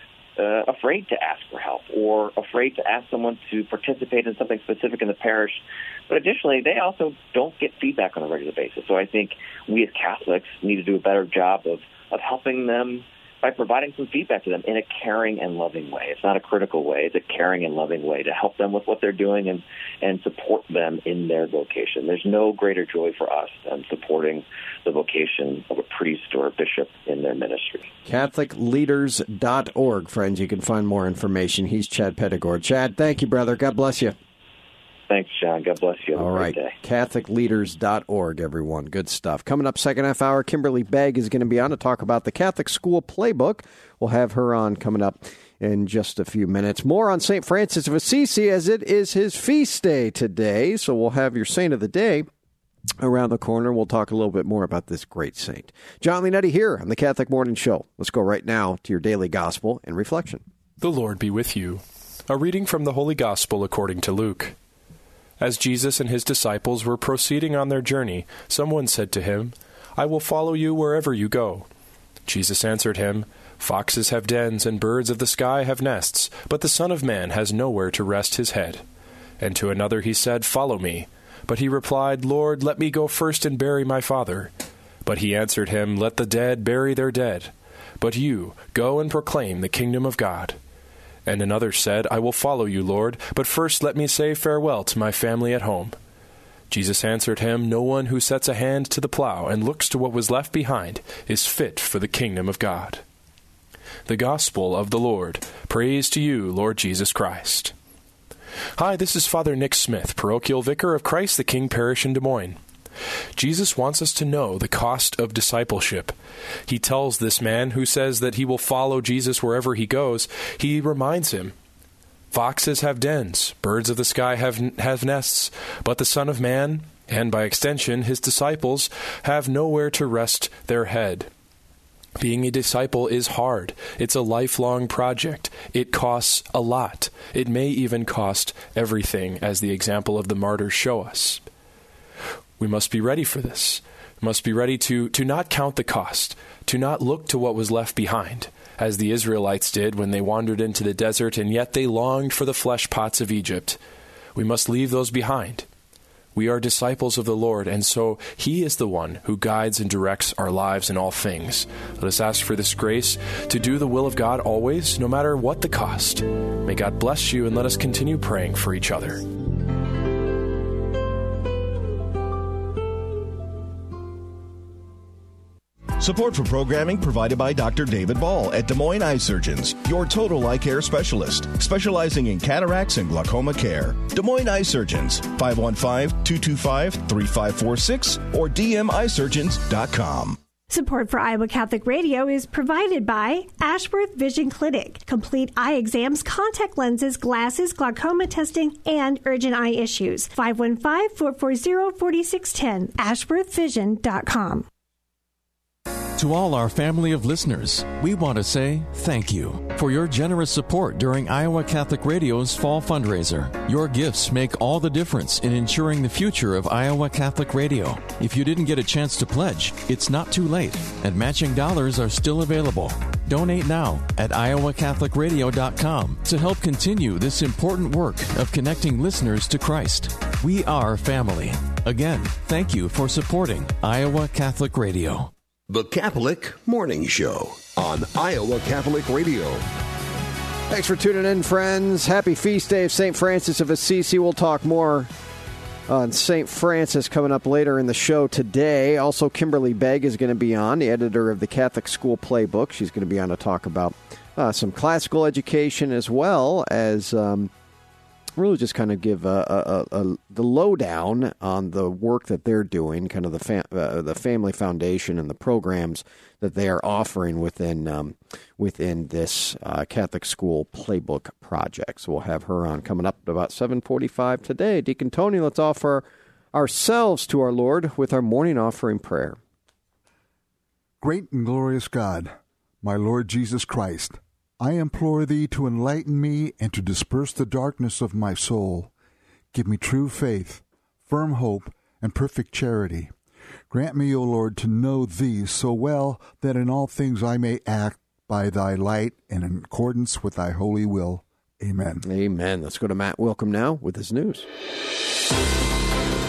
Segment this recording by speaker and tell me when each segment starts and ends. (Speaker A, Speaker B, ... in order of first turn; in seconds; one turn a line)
Speaker A: 0.4-27.9
Speaker B: 28.1-34.1
Speaker A: 35.1-36.7
Speaker B: 36.1-52.3
Speaker B: 53.0-60.4
Speaker C: 60.8-64.5
Speaker C: 65.4-71.7
Speaker C: 72.2-78.8
Speaker C: 79.4-84.5
Speaker C: 85.0-90.6
Speaker C: 91.2-96.0
Speaker C: 96.7-103.0
Speaker C: 104.0-107.7
Speaker C: 108.8-112.6
Speaker C: 113.3-116.1
Speaker C: 116.7-121.5
Speaker C: 122.3-131.3
Speaker C: 132.2-141.4
Speaker C: 142.6-153.8
Speaker C: 154.3-155.7
Speaker C: 156.3-169.2
Speaker D: 176.0-190.4
Speaker E: 190.7-204.7
Speaker F: 206.2-235.3
Speaker G: 235.7-239.6
Speaker B: 240.7-245.1
Speaker B: 245.9-257.5
Speaker B: 258.4-279.4
Speaker H: 281.0-288.9
Speaker H: 289.5-293.1
Speaker H: 293.7-302.0
Speaker B: 302.0-304.5